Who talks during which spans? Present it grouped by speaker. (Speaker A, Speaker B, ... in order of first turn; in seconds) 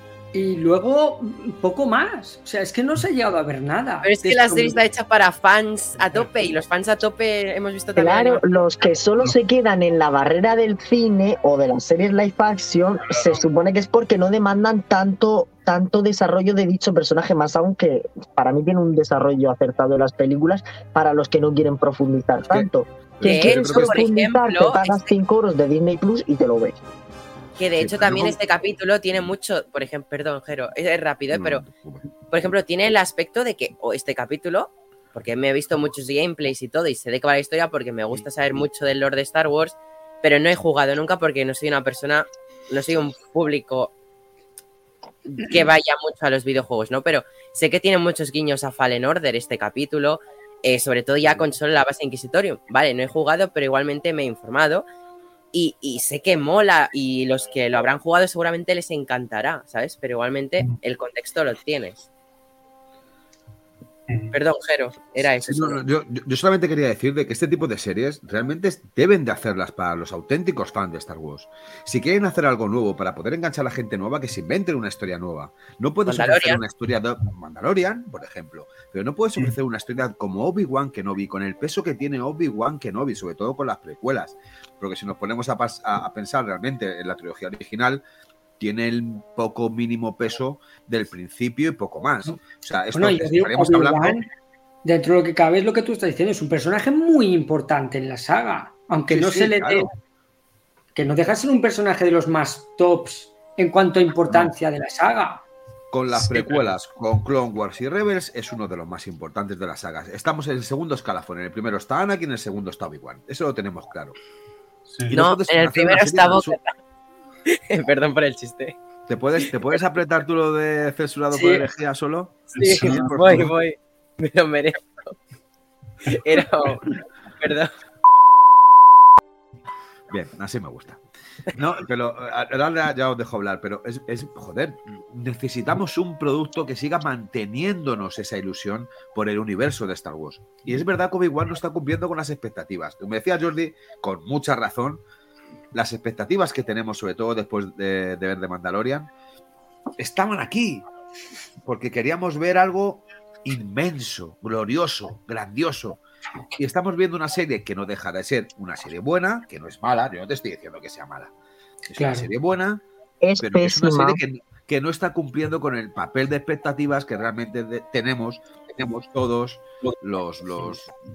Speaker A: 0.3-4.8, 92.9-94.3, 94.8-99.9, 100.9-105.4, 121.3-121.7, 162.0-162.3
Speaker B: 4.0-8.5, 23.2-25.1, 27.6-31.6, 32.3-43.9, 45.2-54.9, 55.5-62.1, 64.3-65.8, 76.0-76.6, 115.1-116.7, 117.5-118.8, 122.5-125.2, 126.0-127.7
Speaker C: 6.0-6.3, 13.1-13.4, 64.1-64.4, 106.3-106.7, 114.9-115.2, 122.5-123.5
Speaker D: 8.0-26.8, 163.2-164.2
Speaker E: 22.5-24.1, 27.7-28.4, 31.3-32.1, 38.1-38.6, 51.2-51.5, 65.4-88.0, 88.6-94.2, 99.1-99.9, 105.9-114.2, 115.1-116.5, 119.1-123.5, 130.1-131.0, 131.5-145.0, 145.7-149.1, 150.0-150.8, 151.6-156.0, 156.6-161.3, 161.9-162.8, 163.4-170.9